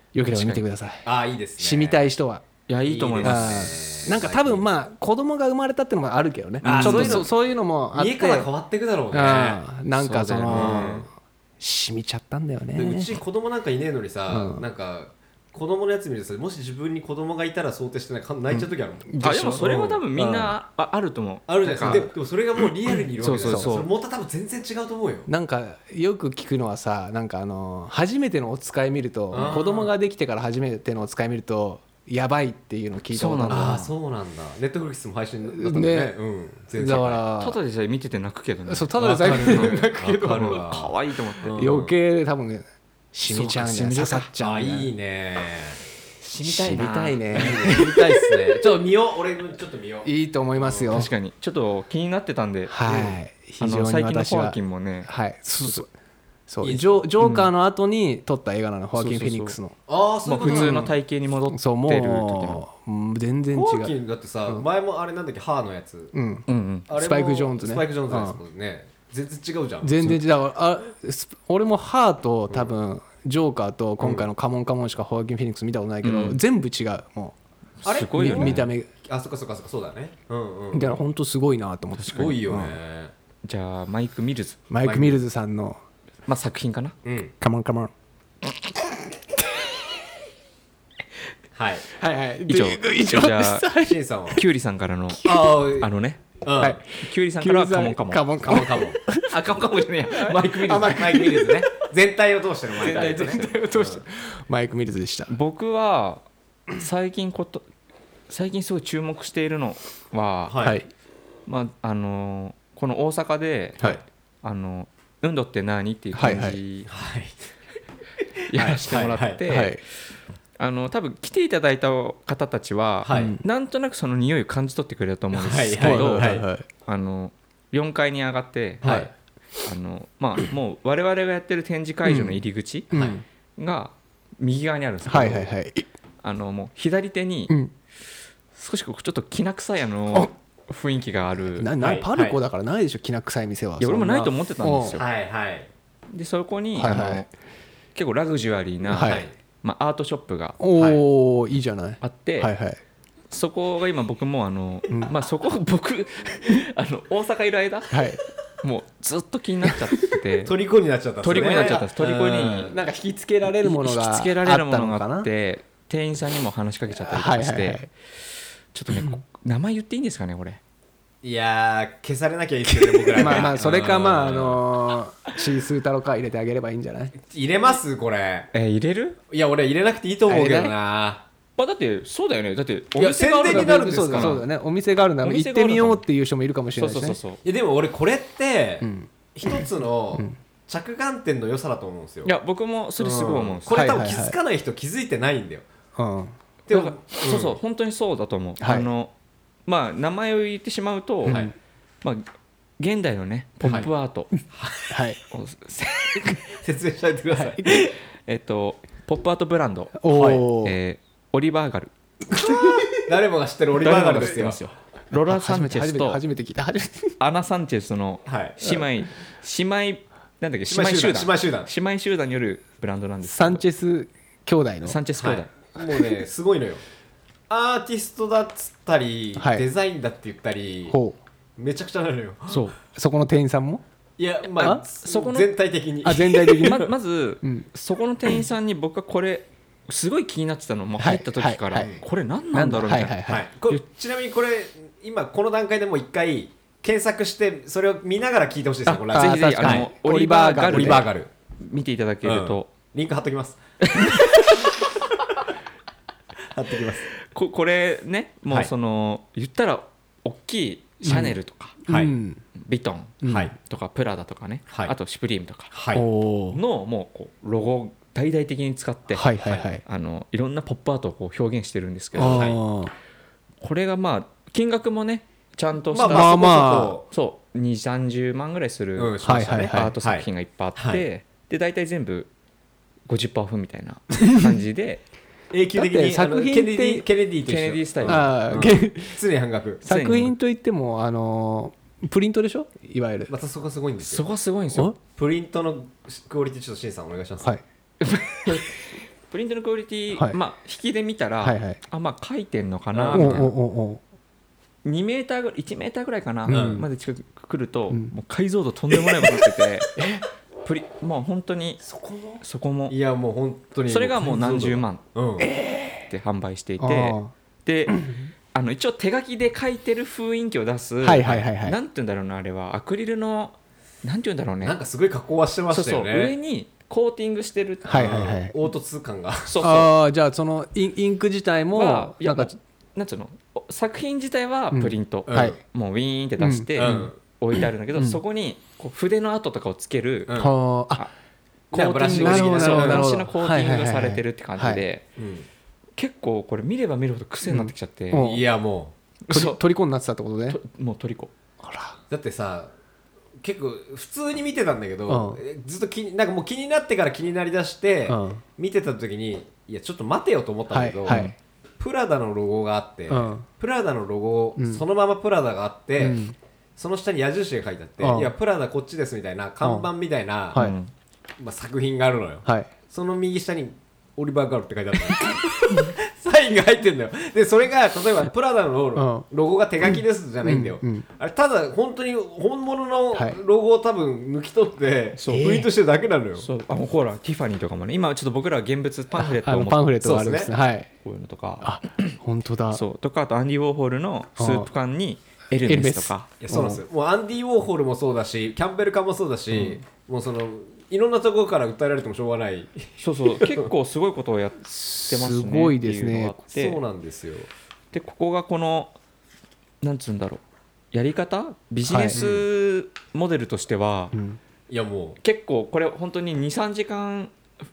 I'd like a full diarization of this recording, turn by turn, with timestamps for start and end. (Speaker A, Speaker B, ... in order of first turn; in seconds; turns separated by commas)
Speaker A: 0.1-1.1, Speaker B: 0.3-0.6, Speaker C: 1.0-2.0, Speaker A: 1.6-2.4, Speaker B: 2.7-3.8, Speaker C: 2.9-4.7, Speaker A: 3.2-8.5, Speaker B: 6.6-7.3, Speaker C: 6.7-7.3, Speaker C: 7.9-9.6, Speaker A: 9.1-11.0, Speaker B: 10.0-11.1, Speaker C: 10.5-11.1, Speaker A: 11.6-13.1, Speaker C: 12.8-20.3, Speaker A: 14.3-14.6, Speaker A: 18.5-19.6, Speaker B: 19.2-22.1, Speaker A: 20.2-20.5, Speaker C: 21.5-25.3, Speaker A: 21.8-22.1, Speaker B: 23.2-23.9, Speaker A: 23.4-23.7, Speaker A: 25.3-33.9, Speaker C: 29.3-29.9, Speaker B: 33.1-33.9, Speaker C: 33.5-37.2, Speaker A: 35.5-36.1, Speaker A: 36.8-37.6, Speaker B: 37.4-41.6, Speaker A: 38.7-40.6, Speaker C: 39.0-41.9, Speaker A: 41.6-44.9, Speaker B: 43.3-44.3, Speaker C: 44.4-45.8, Speaker B: 46.2-47.6, Speaker A: 46.4-48.6, Speaker C: 47.3-51.0, Speaker A: 50.0-51.1, Speaker B: 50.9-52.7, Speaker A: 52.7-55.9, Speaker C: 52.9-53.1, Speaker B: 53.6-55.1, Speaker A: 56.5-59.8, Speaker C: 56.6-57.0, Speaker B: 57.2-57.5, Speaker B: 59.0-59.6, Speaker C: 59.9-60.9, Speaker B: 60.3-62.6, Speaker A: 60.4-60.9, Speaker A: 61.5-63.9, Speaker C: 63.5-66.1, Speaker A: 66.1-68.4, Speaker B: 66.5-66.9, Speaker C: 66.9-70.2, Speaker A: 69.8-77.4, Speaker C: 74.0-74.3, Speaker B: 76.0-76.4, Speaker B: 77.8-78.7, Speaker C: 77.8-81.0, Speaker A: 78.1-78.9, Speaker A: 80.7-82.8, Speaker B: 82.0-82.4, Speaker C: 82.1-83.1, Speaker B: 83.4-84.6, Speaker A: 84.7-85.8, Speaker C: 84.8-85.2, Speaker B: 86.3-87.0, Speaker C: 87.0-87.3, Speaker A: 87.4-87.9, Speaker C: 91.5-91.9, Speaker A: 92.0-94.0, Speaker B: 92.5-93.7, Speaker C: 93.8-94.4, Speaker B: 94.3-98.6, Speaker C: 95.2-95.9, Speaker C: 96.4-96.8, Speaker A: 96.6-99.3, Speaker C: 98.5-99.0, Speaker B: 99.3-101.2, Speaker A: 100.1-101.8, Speaker C: 100.9-104.0, Speaker B: 102.8-103.6, Speaker A: 102.9-105.3, Speaker B: 105.3-106.2, Speaker B: 106.8-107.7, Speaker B: 108.3-110.6, Speaker C: 110.5-110.8, Speaker A: 110.6-110.9, Speaker B: 111.5-116.9, Speaker A: 116.2-116.6, Speaker C: 116.9-117.4, Speaker B: 118.5-119.8, Speaker C: 118.8-119.4, Speaker A: 119.5-119.8, Speaker B: 120.6-128.9, Speaker C: 123.0-123.4, Speaker A: 123.1-123.4, Speaker C: 125.3-126.5, Speaker A: 125.8-126.7, Speaker C: 128.8-129.1, Speaker A: 128.8-129.1, Speaker B: 129.6-132.9, Speaker A: 132.0-133.2, Speaker B: 133.6-135.5, Speaker A: 135.1-135.9, Speaker B: 136.2-137.5, Speaker B: 138.6-141.7, Speaker A: 141.6-145.0, Speaker C: 141.8-142.4, Speaker B: 143.8-145.1, Speaker C: 144.9-145.7, Speaker B: 146.1-147.3, Speaker A: 146.8-147.3, Speaker B: 147.9-150.6, Speaker A: 148.9-149.3, Speaker C: 149.0-149.3, Speaker A: 150.6-152.8, Speaker B: 152.0-152.5, Speaker B: 153.3-158.1, Speaker A: 157.9-158.2, Speaker B: 158.6-160.5, Speaker C: 160.4-162.8, Speaker B: 161.2-162.7, Speaker A: 161.4-161.8, Speaker A: 162.7-165.3, Speaker B: 163.5-167.9, Speaker A: 166.9-167.9, Speaker B: 168.7-170.6, Speaker A: 168.9-169.2, Speaker C: 171.2-174.6, Speaker A: 173.1-177.1, Speaker B: 173.2-173.5, Speaker C: 177.2-178.5, Speaker B: 178.5-179.2, Speaker C: 179.3-181.2, Speaker A: 180.3-180.8, Speaker B: 181.6-184.4, Speaker C: 183.0-184.4, Speaker A: 183.5-187.2, Speaker B: 185.2-186.0, Speaker B: 186.8-187.4, Speaker C: 187.4-192.3, Speaker A: 188.8-190.4, Speaker B: 192.2-193.8, Speaker C: 193.0-195.7, Speaker A: 193.7-194.4, Speaker A: 196.0-196.3, Speaker C: 196.7-197.6, Speaker B: 196.7-199.1, Speaker A: 198.6-198.9, Speaker B: 199.7-201.4, Speaker C: 201.3-201.5, Speaker A: 201.3-201.5, Speaker B: 202.8-204.3, Speaker C: 203.7-203.9, Speaker C: 204.5-204.9, Speaker A: 204.9-205.2, Speaker B: 205.3-206.6, Speaker C: 206.5-207.9, Speaker A: 207.4-207.9, Speaker B: 207.7-211.9, Speaker A: 210.0-210.8, Speaker C: 210.2-210.4, Speaker A: 212.4-212.9, Speaker C: 212.9-214.6, Speaker B: 213.8-216.2, Speaker A: 215.2-217.2, Speaker B: 217.2-223.6, Speaker C: 218.3-218.8, Speaker C: 220.7-221.7, Speaker A: 223.2-225.0, Speaker B: 224.8-225.5, Speaker C: 225.2-226.8, Speaker C: 227.5-231.0, Speaker A: 229.4-229.7, Speaker A: 230.9-231.2, Speaker C: 231.6-232.7, Speaker B: 232.5-232.8, Speaker A: 232.9-233.8, Speaker C: 234.2-236.9, Speaker B: 235.0-235.5, Speaker A: 236.1-236.9, Speaker B: 236.6-243.2, Speaker A: 241.0-242.0, Speaker C: 241.8-242.0, Speaker A: 242.5-243.4, Speaker C: 243.3-249.9, Speaker A: 248.9-251.1, Speaker B: 249.1-252.7, Speaker C: 250.6-251.3, Speaker C: 252.2-254.3, Speaker B: 253.9-254.5, Speaker C: 256.5-257.1, Speaker B: 257.3-261.8, Speaker A: 261.0-262.4, Speaker C: 261.9-262.1, Speaker B: 262.6-265.7, Speaker A: 263.2-263.5, Speaker C: 263.2-263.5, Speaker C: 264.7-264.9, Speaker C: 265.7-266.0, Speaker A: 265.9-266.6, Speaker B: 266.5-272.5, Speaker A: 269.1-269.8, Speaker C: 272.1-272.6, Speaker A: 272.2-272.9, Speaker B: 273.6-282.3, Speaker C: 275.9-277.0, Speaker A: 276.1-277.0, Speaker C: 279.0-281.1, Speaker A: 279.2-280.0, Speaker B: 283.1-285.0, Speaker C: 285.5-289.8, Speaker A: 285.7-287.1, Speaker B: 287.5-288.3, Speaker A: 288.1-289.2, Speaker B: 289.8-290.3, Speaker A: 289.9-293.3, Speaker C: 293.3-294.2, Speaker B: 294.0-294.9, Speaker C: 295.1-297.6, Speaker B: 298.0-303.5, Speaker A: 301.4-301.8, Speaker C: 302.9-303.5, Speaker A: 303.1-304.0, Speaker B: 304.8-310.0, Speaker A: 306.5-306.9, Speaker C: 306.5-306.8, Speaker B: 310.6-311.8, Speaker C: 311.8-315.5, Speaker B: 312.4-313.0, Speaker B: 313.9-315.0, Speaker A: 315.4-316.1, Speaker B: 316.1-318.0, Speaker A: 316.8-317.3, Speaker A: 317.9-318.3, Speaker B: 318.5-324.8, Speaker A: 321.0-321.8, Speaker C: 324.6-326.4, Speaker B: 325.7-328.1, Speaker A: 327.9-328.5, Speaker C: 327.9-329.6, Speaker B: 329.5-329.9, Speaker A: 329.6-332.5, Speaker B: 331.7-340.4, Speaker A: 334.7-335.6, Speaker C: 335.3-335.6, Speaker A: 336.4-337.1, Speaker C: 336.8-337.2, Speaker A: 337.9-338.2, Speaker C: 340.3-340.6, Speaker A: 340.4-341.1, Speaker C: 341.7-343.1, Speaker B: 341.7-345.1, Speaker A: 341.8-344.8, Speaker C: 345.2-345.5, Speaker B: 346.0-348.2, Speaker A: 347.4-348.4, Speaker C: 348.2-348.9, Speaker B: 349.3-349.6, Speaker A: 349.3-350.6, Speaker B: 350.5-351.3, Speaker A: 351.6-352.0, Speaker C: 352.1-352.7, Speaker C: 353.4-361.3, Speaker A: 355.1-355.4, Speaker A: 358.1-358.4, Speaker A: 360.7-361.3, Speaker B: 361.1-361.3, Speaker C: 361.8-366.2, Speaker A: 363.1-363.5, Speaker A: 364.6-364.8, Speaker A: 366.0-366.4, Speaker C: 366.8-370.6, Speaker A: 368.0-368.3, Speaker B: 370.6-370.9, Speaker C: 371.4-386.5, Speaker A: 372.4-372.7, Speaker A: 379.0-379.3, Speaker A: 379.8-381.1, Speaker A: 383.1-383.4, Speaker B: 385.2-385.7, Speaker B: 386.4-389.9, Speaker A: 389.1-390.9, Speaker C: 390.0-390.5, Speaker B: 391.0-392.2, Speaker A: 391.6-392.8, Speaker B: 392.7-396.3, Speaker A: 394.4-394.7, Speaker A: 395.6-396.8, Speaker C: 396.4-403.7, Speaker B: 403.0-406.8, Speaker A: 404.6-406.4, Speaker C: 406.5-407.5, Speaker B: 407.9-409.0, Speaker B: 409.8-410.4, Speaker B: 410.9-414.1, Speaker A: 411.9-412.2, Speaker C: 412.1-412.4, Speaker A: 414.1-414.4, Speaker C: 414.7-415.2, Speaker B: 415.2-417.4